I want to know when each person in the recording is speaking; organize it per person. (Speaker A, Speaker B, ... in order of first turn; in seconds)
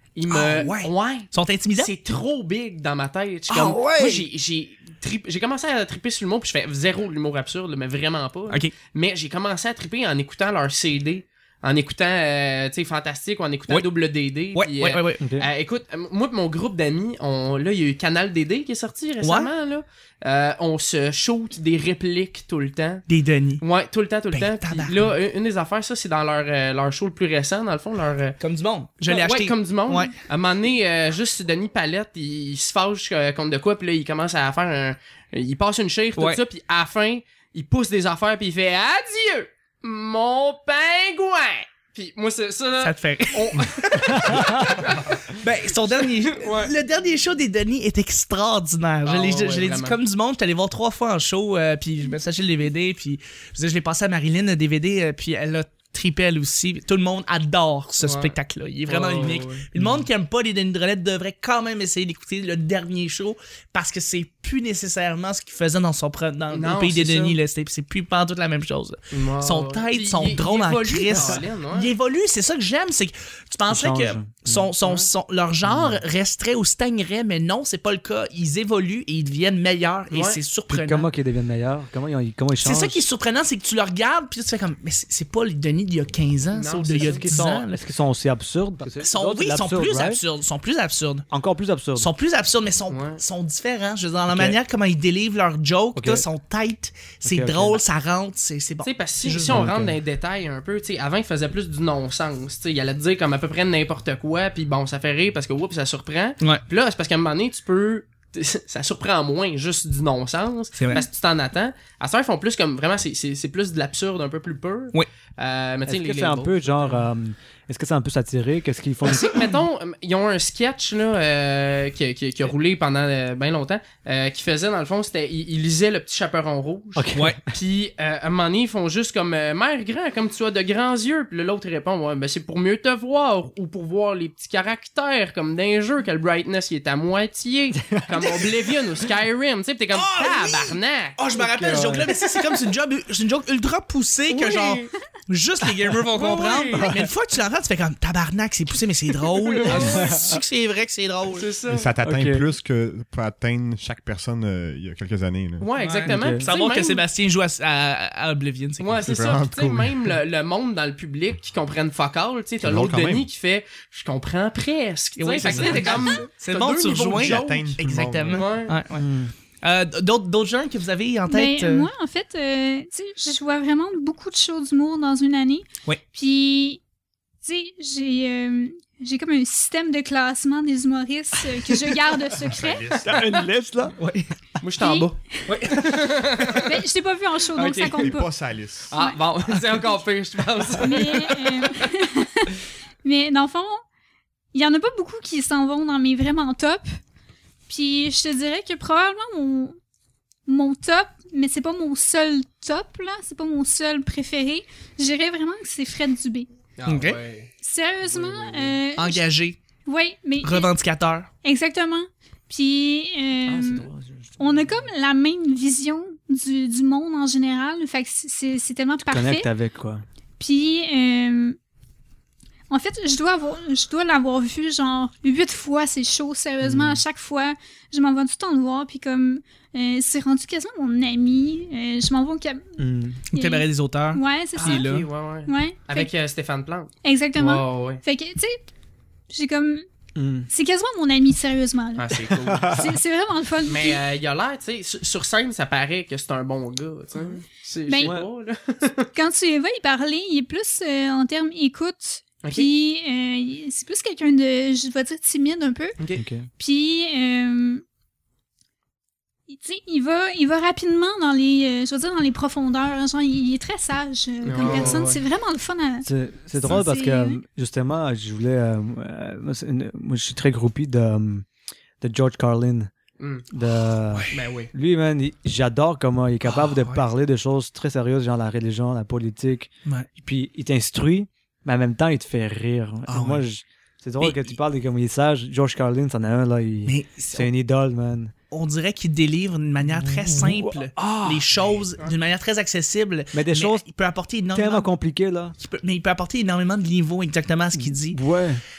Speaker A: 0.1-23.0, 23.6-28.4, 29.0-45.2, 46.1-46.7, 49.0-50.0, 58.0-58.3, 58.9-59.6, 66.5-67.4, 69.1-71.9, 74.8-75.1, 80.1-80.4, 86.5-87.3, 92.9-93.2, 98.8-117.0, 119.0-141.2, 144.3-144.9, 146.1-146.9, 149.4-150.1, 151.3-151.9, 155.6-157.0, 158.8-168.8, 184.6-186.7, 187.6-188.1, 188.9-191.5, 206.8-207.5, 208.1-208.8, 234.5-238.0, 241.9-242.7, 243.7-249.1, 252.4-252.7, 256.0-256.2, 264.4-265.2, 273.2-273.4, 274.3-274.7
Speaker B: 0.3-1.9, 3.5-4.3, 14.5-15.2, 19.2-19.5, 23.1-23.6, 24.3-25.1, 28.4-30.1, 42.8-43.8, 44.6-81.1, 82.6-87.8, 89.0-91.2, 92.0-99.7, 110.8-111.0, 127.1-127.4, 139.9-151.5, 155.8-158.9, 165.2-169.1, 169.6-171.9, 184.0-184.3, 185.5-186.6, 206.8-207.2, 208.9-209.6, 210.4-211.3, 233.3-235.1, 274.1-274.4, 276.4-277.1, 283.1-283.4, 284.2-284.6, 286.9-287.5, 288.5-294.9, 295.6-298.2
Speaker C: 15.2-15.5, 44.1-44.5, 59.8-60.0, 71.1-71.4, 73.7-74.7, 75.7-76.0, 80.7-83.0, 86.9-90.2, 91.3-92.1, 94.3-94.5, 96.0-96.2, 97.2-97.8, 99.5-100.0, 115.8-119.5, 127.0-127.4, 137.8-138.7, 141.3-142.1, 146.7-147.1, 149.6-150.4, 152.0-152.4, 156.0-156.4, 168.9-169.3, 183.0-183.9, 213.5-214.9, 219.1-220.0, 226.6-227.0, 232.8-233.2, 240.1-240.5, 242.3-243.0, 248.0-248.3, 256.1-256.5, 264.6-265.1, 266.0-271.4, 272.0-272.9, 273.5-288.3, 289.9-291.6, 293.3-293.9, 294.5-295.5, 297.7-298.6
Speaker D: 151.7-155.7, 159.0-160.2, 162.6-163.3, 165.6-166.1, 167.1-168.5, 182.4-183.2, 187.8-188.9
Speaker E: 171.3-176.8, 177.4-183.1, 184.8-185.1, 186.6-188.3, 190.8-193.8, 194.5-197.0, 197.7-199.8, 200.5-206.5, 207.6-209.2, 209.8-210.7, 211.4-219.5, 220.4-221.6, 222.7-234.9, 235.4-236.1, 237.0-238.6, 239.3-239.8, 240.5-244.0, 247.2-248.2, 249.1-255.9, 256.6-257.8, 259.5-267.4